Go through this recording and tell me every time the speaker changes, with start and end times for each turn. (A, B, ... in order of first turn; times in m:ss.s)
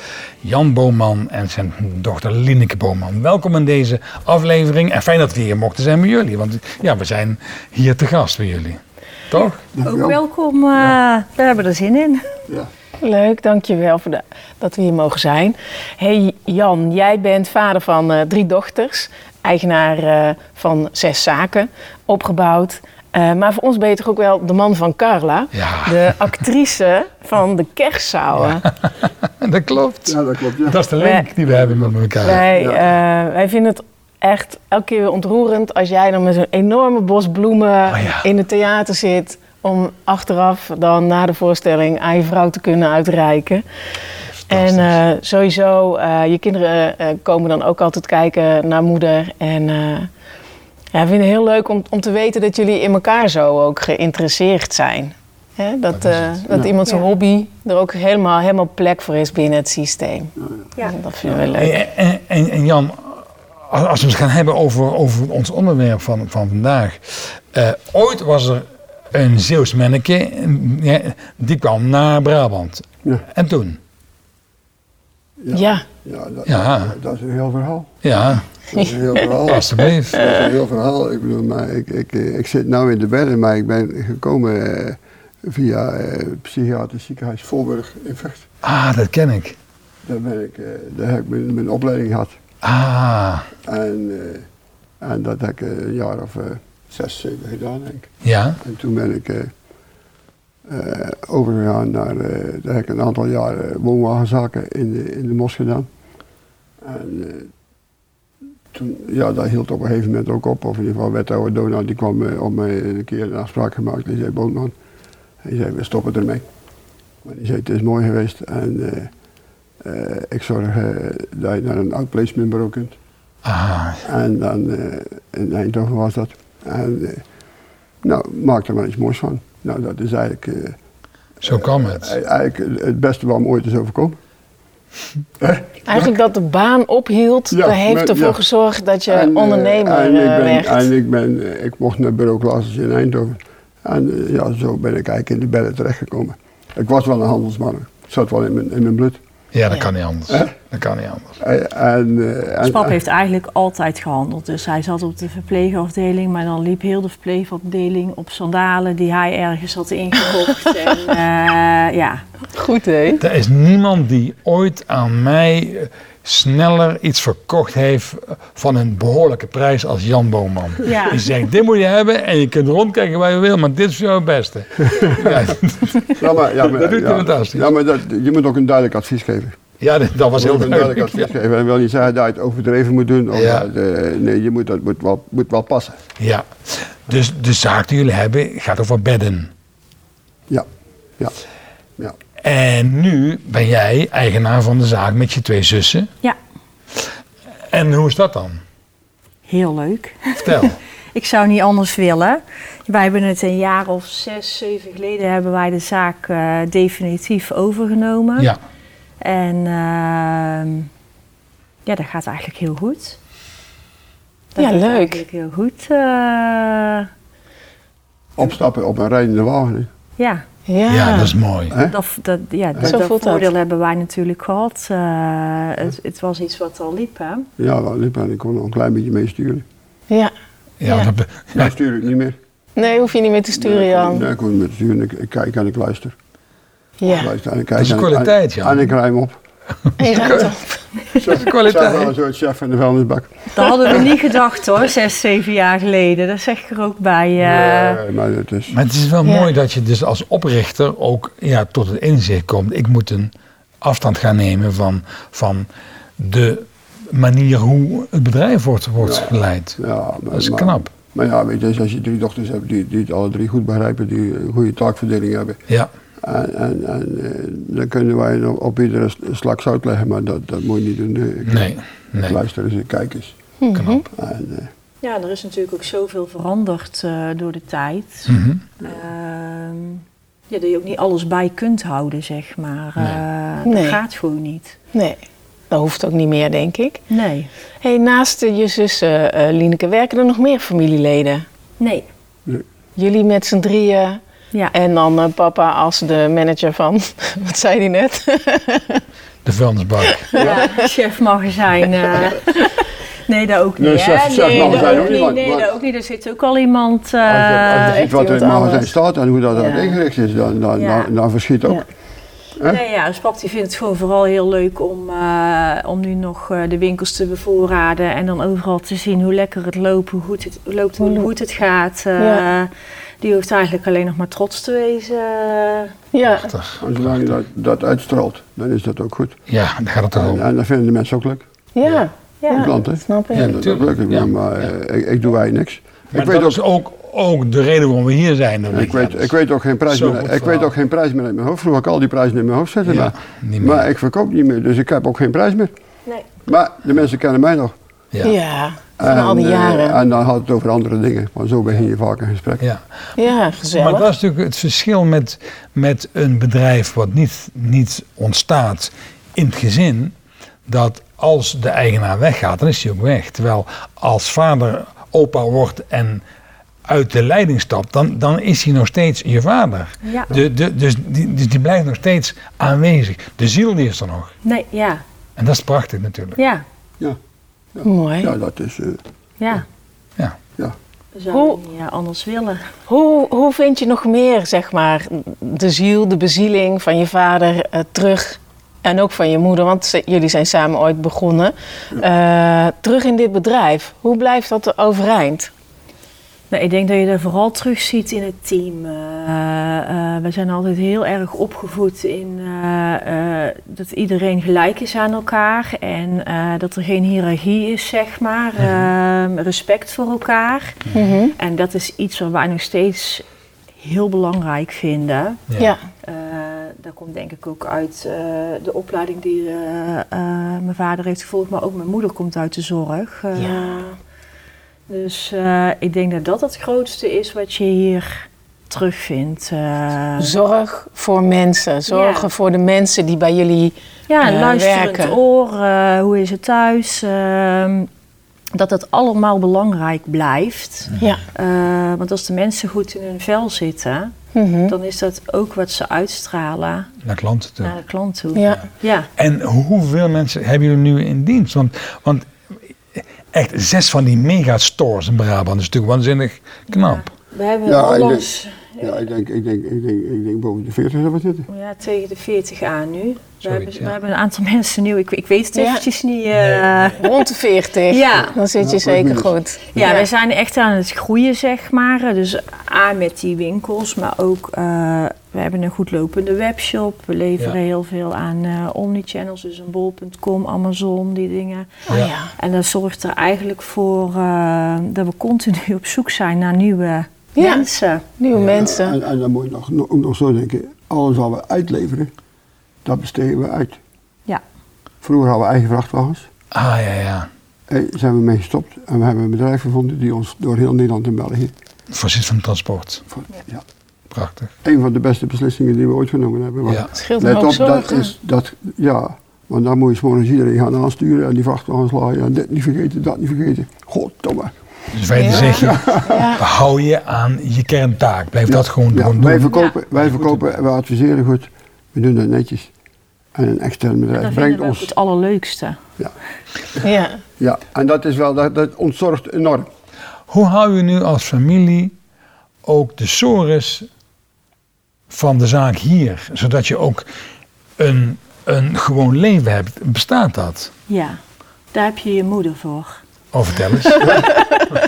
0:00.4-0:08.8 A
0:09.3-0:09.6 A
0:09.6-0:10.2 B
0:09.8-0:12.2 C
0:13.0-0:28.7 D
0:25.5-0:26.3 A
0:28.4-0:32.4 A
0:30.0-0:30.8 B
0:31.0-0:31.2 D
0:31.5-0:32.8 B
0:32.2-0:43.6 D
0:37.9-0:38.3 A
0:44.4-0:45.0 A
0:44.5-0:50.1 D
0:50.9-1:01.8 D
0:55.9-0:56.6 A
1:01.5-1:13.8 A
1:15.4-1:18.0 B
1:15.5-1:15.8 D
1:16.5-1:16.9 A
1:18.0-1:18.4 A
1:18.7-1:28.5 B
1:19.5-1:20.2 A
1:28.6-1:29.6 A
1:30.0-1:32.4 B
1:32.6-1:33.5 A
1:33.6-1:34.4 B
1:35.0-1:38.1 B
1:38.2-1:38.6 A
1:38.6-1:39.5 B
1:40.6-1:45.9 B
1:46.8-1:47.5 B
1:48.7-1:54.7 B
1:55.4-1:56.4 B
1:57.2-1:59.1 B
1:59.8-2:03.0 B
2:03.4-2:04.0 A
2:04.0-2:07.2 B
2:08.0-2:10.8 B
2:11.4-2:12.1 A
2:11.4-2:14.2 B
2:15.4-2:16.1 B
2:15.9-2:20.9 D
2:17.5-2:18.4 B
2:19.1-2:29.2 B
2:29.5-2:31.3 A
2:30.3-2:30.5 B
2:31.4-2:33.0 B
2:32.6-2:42.2 C
2:42.5-2:43.2 D
2:43.2-2:56.1 A
2:50.8-2:51.2 C
2:54.9-2:55.4 B
2:56.0-2:59.6 B
2:56.6-2:57.6 A
2:59.8-3:01.2 A
3:00.4-3:06.0 B
3:03.3-3:03.6 A
3:06.2-3:09.5 A
3:12.4-3:16.1 A
3:17.7-3:18.6 A
3:19.5-3:28.5 C
3:20.4-3:20.8 A
3:29.2-3:30.9 C
3:31.8-3:33.2 C
3:34.5-3:37.1 C
3:34.6-3:35.2 D
3:38.4-3:39.9 B
3:40.2-3:40.4 C
3:40.7-3:41.3 D
3:40.9-3:41.8 A
3:41.7-3:41.9 B
3:41.9-3:47.5 C
3:42.8-3:43.5 D
3:47.6-3:49.6 B
3:50.8-3:51.7 A
3:50.8-3:51.1 D
3:51.5-3:52.4 B
3:52.8-3:54.2 D
3:53.6-3:56.1 B
3:57.0-3:57.3 D
3:57.1-3:59.4 B
3:57.8-3:58.9 A
4:00.0-4:00.8 D
4:00.0-4:00.5 A
4:00.2-4:00.4 B
4:01.1-4:04.1 B
4:01.2-4:02.1 A
4:03.5-4:08.0 C
4:07.4-4:08.8 B
4:08.7-4:19.8 A
4:09.2-4:09.5 D
4:19.0-4:25.6 B
4:20.3-4:20.9 A
4:26.2-4:33.4 B
4:31.4-4:32.4 A
4:33.6-4:34.0 D
4:33.7-4:34.0 A
4:34.1-4:34.7 B
4:35.0-4:44.8 C
4:38.3-4:38.6 A
4:43.6-4:44.0 D
4:44.9-4:47.0 D
4:47.1-4:47.5 C
4:47.8-4:51.4 D
4:51.8-4:52.1 C
4:53.0-4:54.2 D
4:54.7-4:59.0 D
4:59.4-5:00.3 A
5:00.0-5:00.9 D
5:00.3-5:00.6 B
5:00.3-5:08.1 C
5:03.8-5:05.7 B
5:04.4-5:05.1 D
5:07.2-5:11.8 B
5:07.8-5:08.9 D
5:09.5-5:10.0 D
5:10.8-5:11.1 C
5:12.6-5:22.7 C
5:21.0-5:21.3 D
5:22.2-5:22.4 D
5:23.2-5:25.9 C
5:26.1-5:26.5 D
5:26.2-5:27.2 A
5:26.8-5:29.4 B
5:29.5-5:30.4 A
5:30.1-5:31.4 B
5:31.7-5:33.5 D
5:32.5-5:36.6 B
5:33.3-5:34.3 A
5:36.1-5:39.3 A
5:38.7-5:45.7 B
5:39.9-5:40.7 A
5:42.8-5:43.8 A
5:46.4-5:47.7 B
5:48.2-5:50.0 D
5:49.0-5:52.6 B
5:52.6-5:52.8 A
5:53.2-5:54.1 D
5:53.7-6:00.1 A
6:00.7-6:06.2 A
6:06.9-6:14.3 A
6:10.0-6:10.3 C
6:14.4-6:15.0 C
6:15.4-6:16.4 A
6:16.4-6:16.6 C
6:17.7-6:19.0 B
6:17.8-6:18.3 D
6:19.4-6:19.6 C
6:21.1-6:22.7 C
6:21.3-6:21.6 D
6:22.9-6:35.5 D
6:36.5-6:50.8 C
6:50.9-6:51.3 D
6:51.3-6:53.2 C
6:53.8-6:55.4 C
6:55.6-6:55.8 D
6:56.0-7:03.8 C
7:03.4-7:03.9 D
7:04.9-7:10.3 C
7:10.2-7:15.2 D
7:11.9-7:12.3 C
7:14.1-7:17.9 C
7:18.5-7:24.1 C
7:21.0-7:21.2 D
7:24.3-7:24.7 D
7:24.7-7:26.9 C
7:27.0-7:27.8 A
7:27.6-7:29.1 C
7:28.3-7:28.6 D
7:29.2-7:32.3 A
7:32.9-7:37.1 A
7:36.7-7:38.9 C
7:37.6-7:41.5 B
7:41.5-7:47.2 C
7:43.4-7:43.9 A
7:45.6-7:45.8 D
7:47.0-7:50.1 D
7:47.9-7:48.4 C
7:48.6-7:49.9 B
7:49.7-8:01.7 C
8:01.9-8:02.3 D
8:02.4-8:08.0 C
8:07.4-8:07.6 D
8:08.2-8:09.0 D
8:08.3-8:08.6 A
8:08.5-8:12.1 B
8:12.8-8:13.8 B
8:15.0-8:16.3 B
8:16.5-8:17.3 A
8:17.7-8:21.5 B
8:21.9-8:23.0 A
8:24.1-8:24.5 A
8:24.6-8:34.5 B
8:26.9-8:28.1 D
8:34.9-8:40.4 A
8:35.2-8:36.4 D
8:35.2-8:35.7 C
8:35.3-8:36.3 B
8:38.5-8:42.7 B
8:43.3-8:44.9 B
8:44.2-8:45.8 C
8:46.8-8:47.2 D
8:47.4-8:49.7 B
8:50.3-8:51.9 A
8:52.6-8:53.9 A
8:55.1-8:57.1 A
8:57.8-9:00.7 A
9:00.9-9:01.2 C
9:01.7-9:03.0 C
9:03.3-9:04.3 A